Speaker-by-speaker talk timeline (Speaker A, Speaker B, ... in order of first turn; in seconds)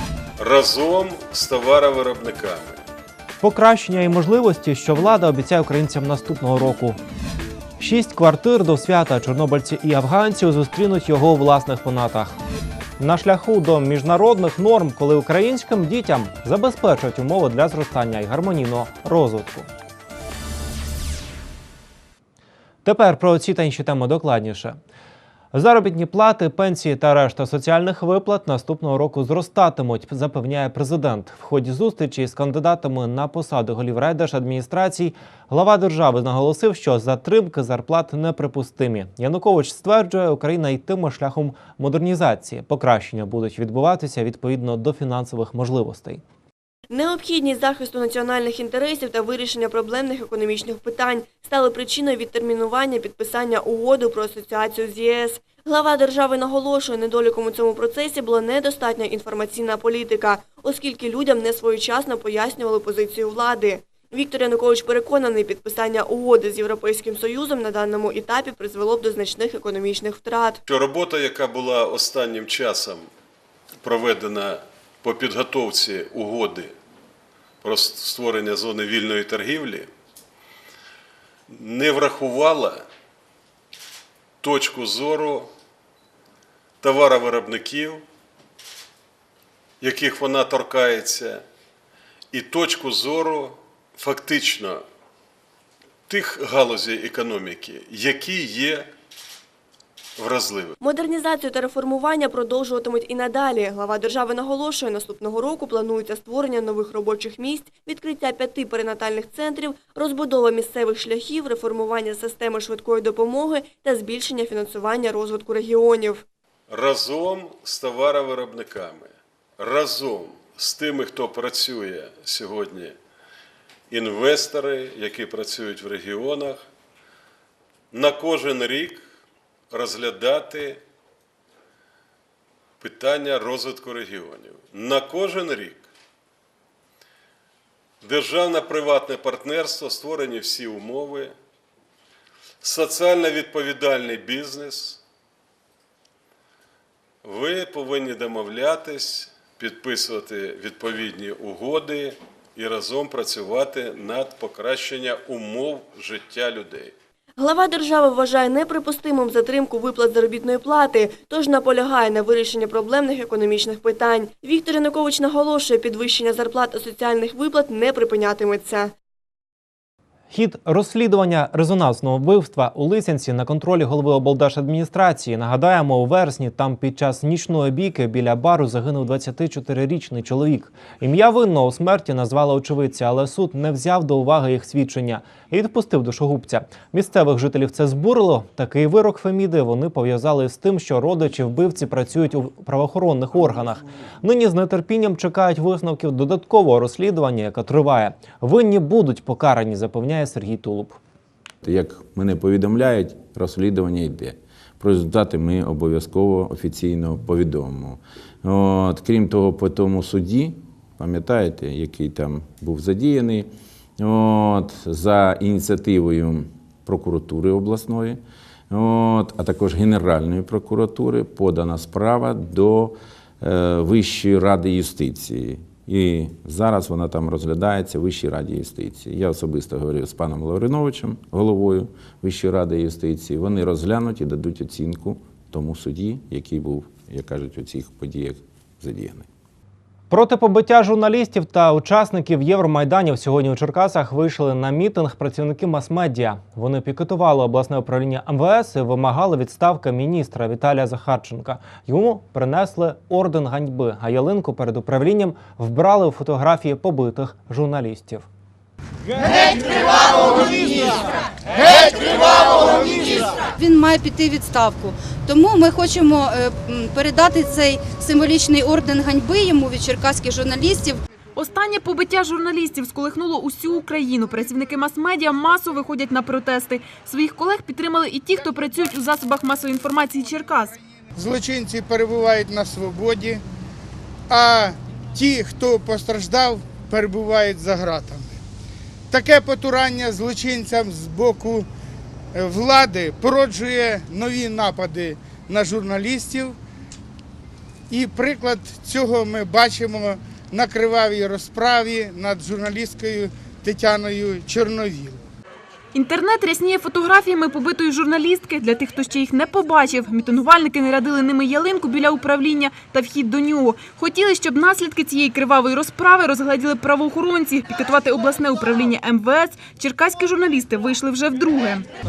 Speaker A: 0.4-2.8, 70.7-73.1, 73.8-76.7, 77.6-79.9, 81.5-82.8, 84.4-85.5, 86.8-88.0, 89.8-91.4, 92.3-94.8, 96.1-98.9, 100.2-100.7, 116.7-123.0, 123.9-126.6, 127.9-129.0, 129.7-130.8, 132.8-135.9, 138.0-141.3, 142.6-145.0, 147.2-156.9
Speaker B: 3.4-7.0, 7.8-12.4, 13.0-19.7, 22.8-24.8, 25.5-46.2, 170.3-201.0, 240.1-258.2
Speaker C: 46.9-70.6, 100.8-116.2, 157.4-168.9
Speaker D: 201.6-218.2, 218.7-239.3
Speaker E: 260.1-260.9, 261.7-271.0
Speaker F: 271.4-280.8, 305.9-321.9
Speaker G: 281.1-283.4, 284.3-288.4, 289.1-291.7, 292.3-296.6, 297.9-305.2